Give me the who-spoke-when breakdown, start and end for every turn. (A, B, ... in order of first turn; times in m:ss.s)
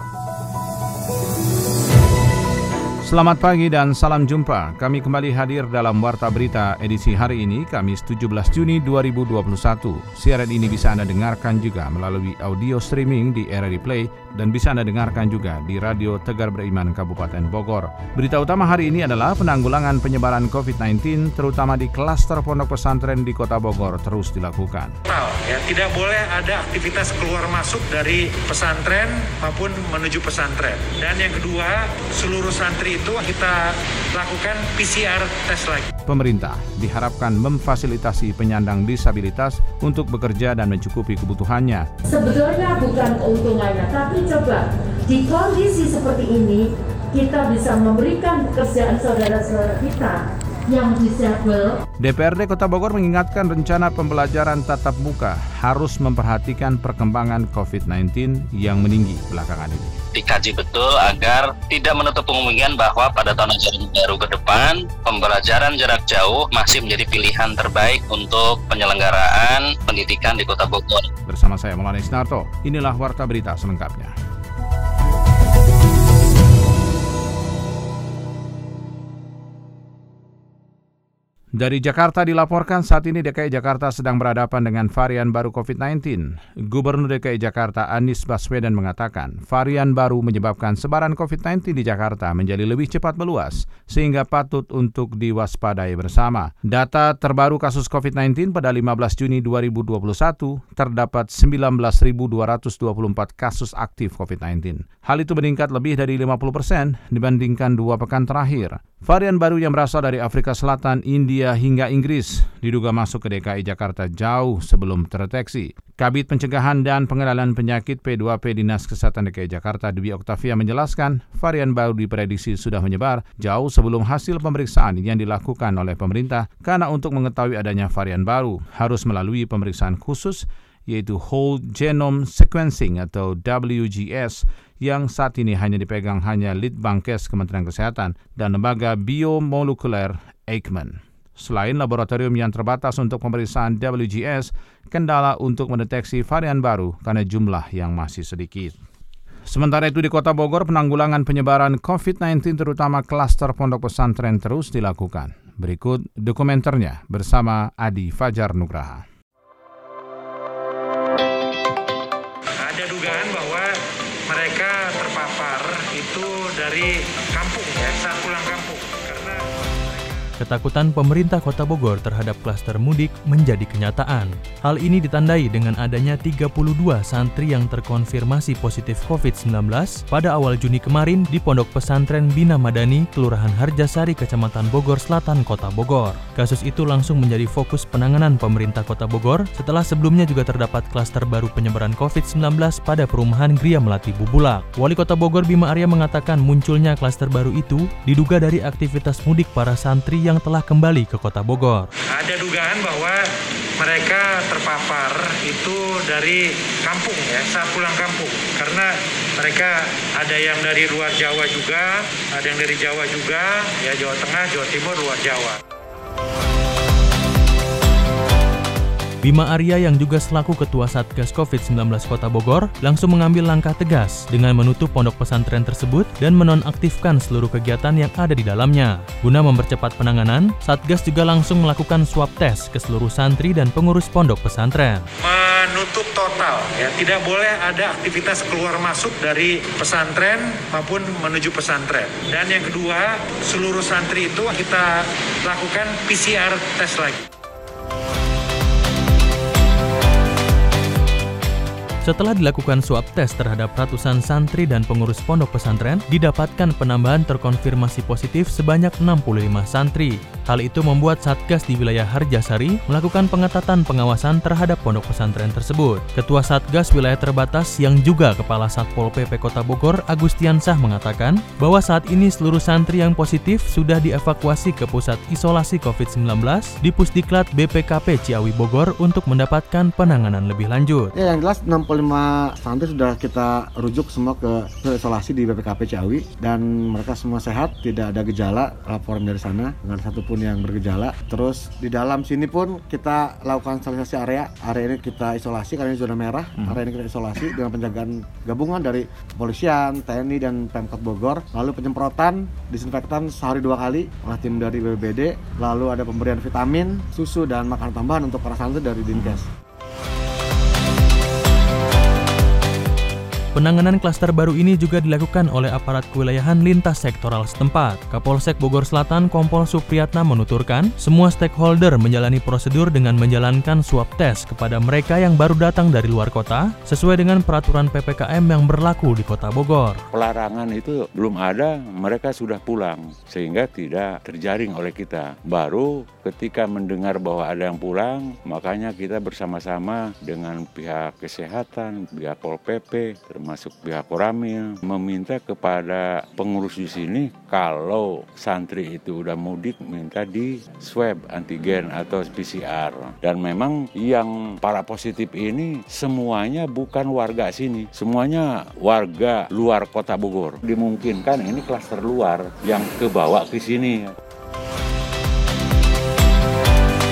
0:03.0-0:25.0 A
0:25.1-0:35.9 B
0:36.1-0:41.9 A
0:42.1-0:51.8 C
0:52.0-1:00.0 A
1:00.2-1:11.1 D
1:11.3-1:14.1 A
1:21.6-2:28.8 A
2:29.5-2:39.0 A
2:42.6-2:43.6 B
2:44.3-2:50.2 B
2:50.4-3:21.9 E
3:22.1-3:23.2 B
3:23.8-3:35.6 B
3:39.2-3:55.1 E
3:55.2-4:04.9 B
4:05.4-4:07.3 B
4:12.0-4:41.1 E
4:41.2-5:09.5 F
5:13.6-5:30.0 E
5:30.1-6:04.1 G